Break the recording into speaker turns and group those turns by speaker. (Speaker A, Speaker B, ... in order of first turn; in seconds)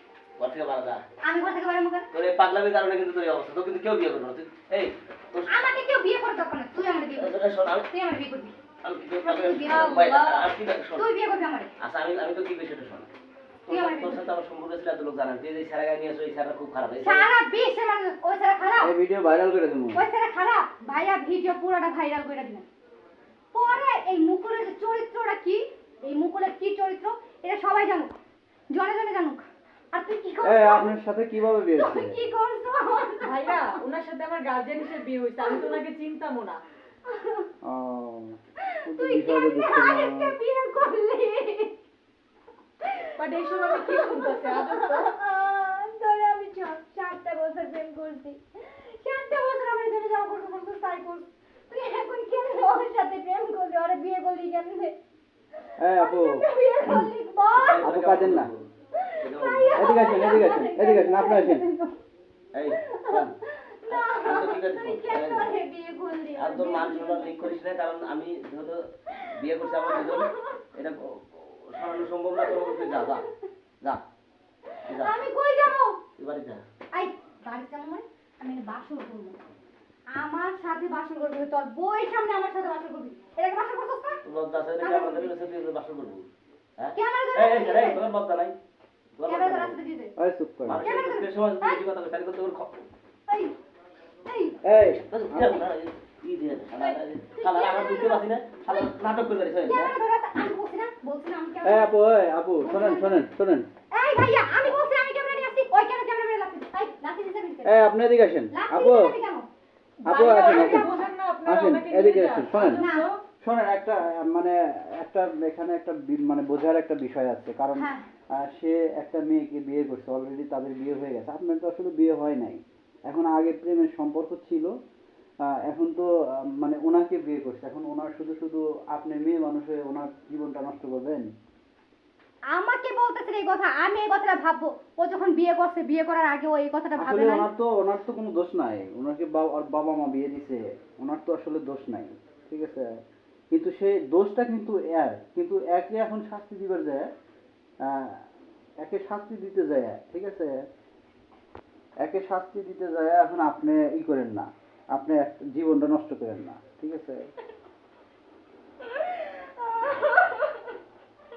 Speaker A: 0.4-1.0, 2.1-5.6, 7.2-7.9, 8.8-11.0, 11.8-13.1, 13.7-17.3, 57.5-58.7, 59.2-60.2, 62.5-63.3, 63.9-65.5, 66.3-73.2, 74.8-75.2, 76.2-76.6, 84.2-86.3, 86.8-88.5, 89.2-89.8, 90.6-92.8, 94.8-100.0
Speaker B: 1.2-2.1, 5.5-7.3, 7.9-8.5, 9.2-10.1, 10.9-11.7, 13.7-14.2, 17.0-18.9, 19.9-22.6, 23.5-28.1, 28.7-30.9, 31.7-33.8, 37.1-37.5, 38.6-41.7, 42.9-55.0, 55.9-57.8, 59.0-61.9, 62.8-67.4, 69.8-70.6, 72.5-73.2, 75.0-76.0, 76.9-79.4, 80.1-84.2, 84.8-85.3, 86.9-88.0, 89.3-90.1, 90.8-91.8, 93.3-93.5, 94.2-94.6, 97.3-98.9, 99.6-101.9, 102.6-103.2, 103.9-107.8, 108.5-109.5, 110.2-111.1, 112.6-113.1, 117.7-118.0, 132.5-137.5, 158.8-160.8
Speaker C: 9.6-10.5, 33.2-36.6, 43.2-45.1, 110.0-113.2
Speaker D: 18.8-20.0, 30.4-32.2, 37.6-40.4, 55.8-57.1, 57.8-58.5, 59.7-61.7, 90.2-90.8, 94.6-95.6, 101.6-103.7, 107.6-109.1, 110.0-110.9, 111.4-112.8, 113.4-124.7, 125.4-131.3, 137.0-143.0, 143.5-147.1, 147.8-148.2, 148.8-150.6, 152.0-157.3